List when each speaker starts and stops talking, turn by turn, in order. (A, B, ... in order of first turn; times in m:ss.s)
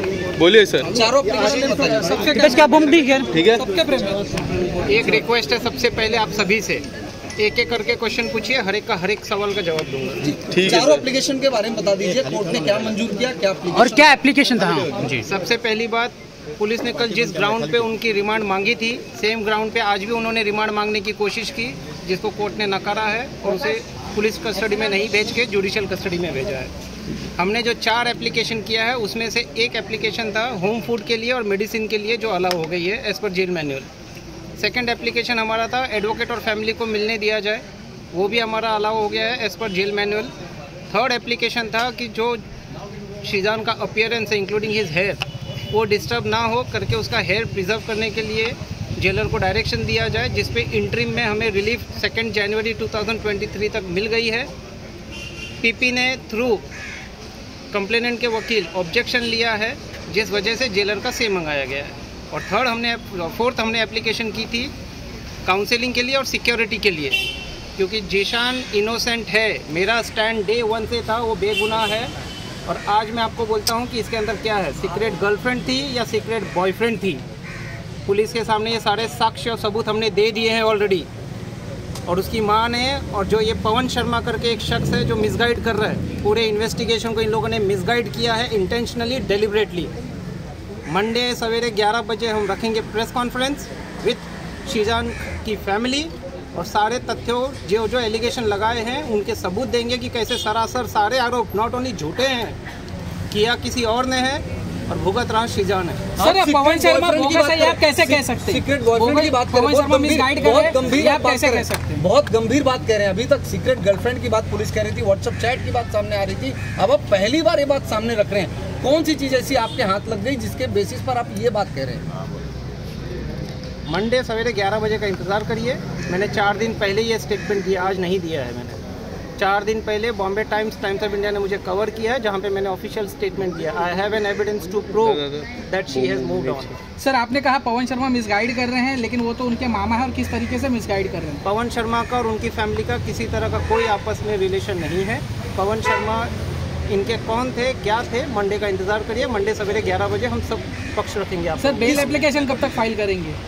0:00.4-0:01.0 A
0:00.8-0:03.0 B
0:01.6-0:04.2 C
0:02.4-0:03.3 D
0:03.3-0:03.6 A
0:03.5-0:04.1 B
0:04.8-0:06.8 E
0:07.4-0:10.4 E
0:10.2-0:14.2 B
0:10.5-0:11.0 A
0:13.7-0:15.2 D
0:15.1-0:26.7 E
0:27.4-0:33.9 E
0:34.6-0:40.3 E
0:40.9-0:42.4 E
0:43.2-0:54.5 E
0:55.6-0:56.6 E
0:57.7-1:04.7 E
1:05.4-1:07.2 E
1:07.8-1:12.1 E
1:12.6-1:17.2 E
1:18.0-1:21.1 E
1:22.0-1:29.9 E
1:30.9-1:42.6 E
1:43.3-1:46.0 E
1:46.2-2:02.0 B
1:46.2-1:52.0 C
2:03.9-2:08.8 E
2:09.4-2:16.8 E
2:15.1-2:15.4 A
2:16.0-2:16.6 A
2:17.0-2:21.4 C
2:21.4-2:26.3 E
2:26.9-2:32.3 E
2:31.6-2:33.4 C
2:31.8-2:32.2 B